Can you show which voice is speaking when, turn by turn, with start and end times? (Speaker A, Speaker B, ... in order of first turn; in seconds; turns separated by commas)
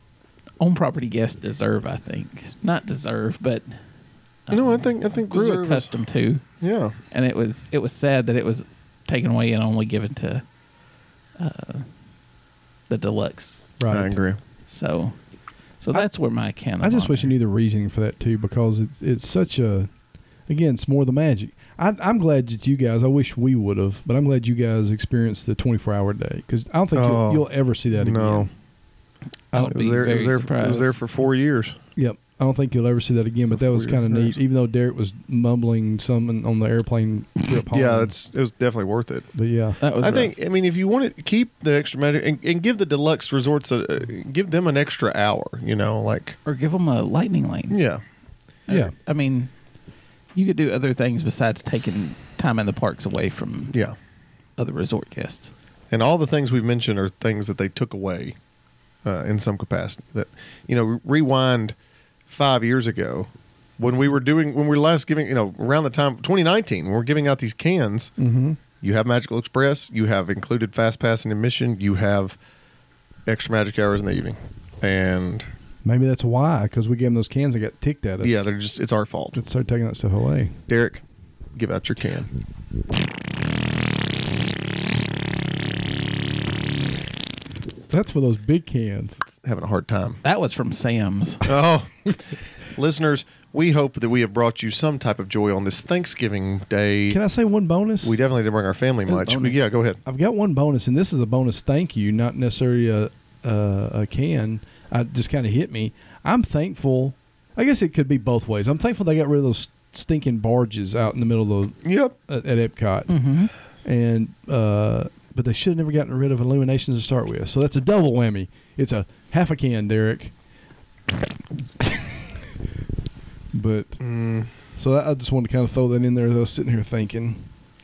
Speaker A: 0.6-3.8, Speaker A: 4.5-6.4, Speaker B: 4.5-5.9, Speaker B: 6.6-7.0, Speaker A: 7.1-10.4, Speaker A: 11.4-11.9, Speaker A: 12.9-13.8, Speaker C: 13.8-14.1, Speaker B: 13.9-14.4, Speaker A: 14.7-15.2, Speaker A: 15.8-17.4, Speaker C: 16.8-19.9, Speaker C: 20.5-28.5, Speaker B: 26.9-28.5, Speaker A: 29.5-30.9, Speaker B: 29.6-31.8, Speaker C: 31.9-38.1, Speaker B: 33.5-34.4, Speaker B: 37.7-39.3, Speaker C: 39.4-39.8, Speaker A: 39.8-40.3, Speaker B: 40.0-46.4, Speaker A: 46.5-47.8, Speaker B: 47.7-48.0, Speaker A: 48.7-49.5, Speaker C: 48.7-48.9, Speaker A: 50.4-53.7, Speaker B: 53.7-54.0, Speaker A: 54.6-55.5, Speaker B: 55.9-58.4, Speaker B: 59.0-61.7, Speaker B: 62.3-68.1, Speaker C: 68.2-68.6, Speaker B: 68.8-72.4, Speaker B: 73.2-75.5, Speaker C: 75.8-78.5, Speaker B: 78.2-79.4, Speaker C: 79.3-80.5, Speaker B: 80.7-81.0, Speaker B: 81.5-82.3, Speaker C: 87.9-89.2, Speaker B: 89.2-90.2, Speaker A: 90.2-91.4, Speaker B: 91.4-97.2, Speaker C: 97.1-98.2, Speaker B: 98.0-100.0, Speaker C: 99.1-113.1, Speaker B: 111.8-112.1, Speaker A: 113.1-113.5, Speaker C: 113.8-120.3, Speaker C: 121.8-122.2, Speaker C: 123.5-124.0, Speaker B: 124.0-124.5, Speaker C: 124.7-127.5